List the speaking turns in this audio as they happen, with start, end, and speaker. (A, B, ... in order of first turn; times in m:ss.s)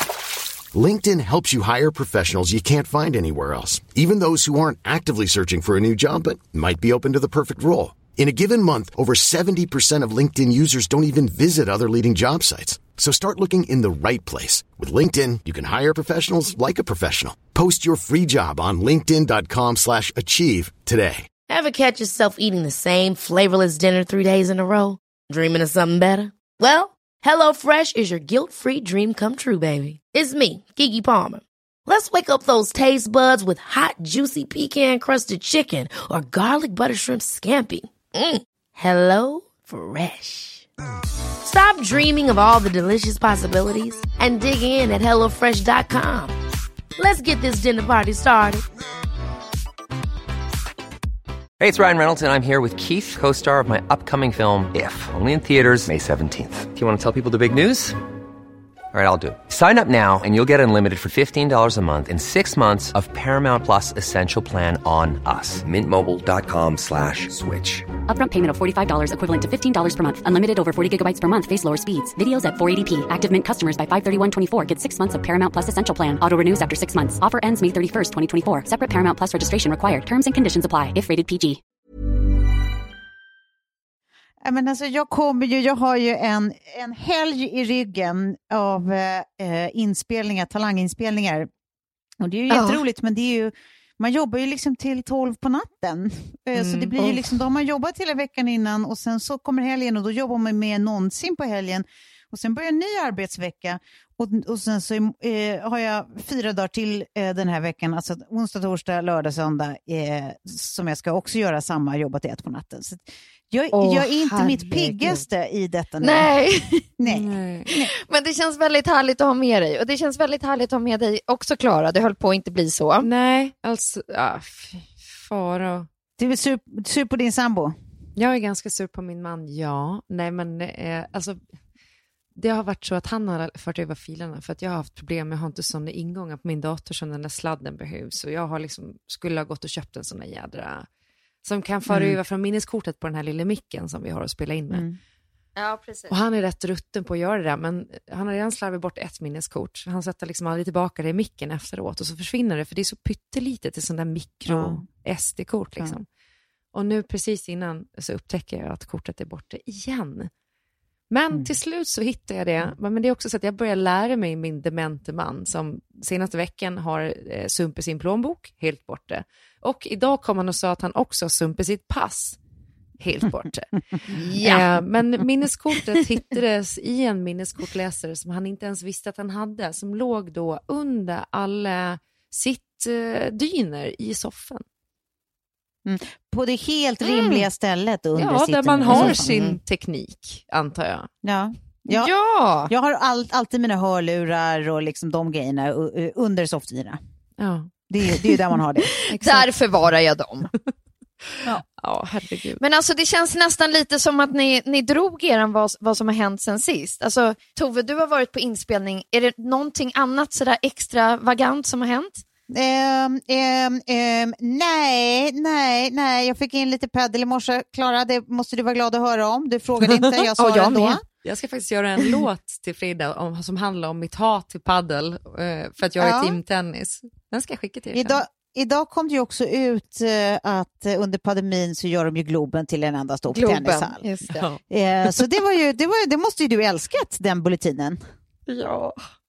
0:00.7-0:21.3 A
0:21.5-0:40.6 B
0:41.4-0:46.3 B
0:47.0-0:48.6 B
0:51.6-0:58.0 C
0:58.9-1:07.9 C
1:08.1-1:21.6 D
1:24.4-1:31.5 E
1:32.2-1:56.3 E
1:32.5-1:32.8 F
1:36.5-1:36.9 G
1:53.7-1:55.2 F
1:56.0-1:56.9 F
1:57.0-1:57.9 E
1:57.0-1:57.7 G
1:57.7-2:03.1 F
2:03.0-2:05.9 G
2:06.2-2:07.7 E
2:08.2-2:11.4 G
2:12.4-2:20.9 G
2:21.4-2:24.8 G
2:21.9-2:22.2 E
2:24.7-2:25.0 E
2:25.6-2:26.1 F
2:26.1-2:36.0 G
2:34.4-2:34.8 E
2:36.7-2:40.3 G
2:41.1-2:52.4 G
2:53.0-3:04.6 G
2:54.1-2:54.7 F
3:05.8-3:09.4 E
3:07.1-3:07.4 F
3:08.2-3:11.1 G
3:08.9-3:09.6 F
3:11.2-3:12.1 E
3:11.9-3:12.7 F
3:12.7-3:17.0 E
3:17.4-3:17.7 G
3:17.9-3:18.9 E
3:19.0-3:20.5 F
3:19.1-3:19.5 G
3:21.8-3:22.6 G
3:22.6-3:32.2 F
3:32.5-3:41.0 E
3:40.4-3:41.0 F
3:41.2-3:48.2 G
3:46.0-3:46.4 E
3:47.9-3:54.0 E
3:53.3-3:54.4 F
3:54.3-3:54.6 G
3:54.7-3:58.0 E
3:58.5-3:59.0 G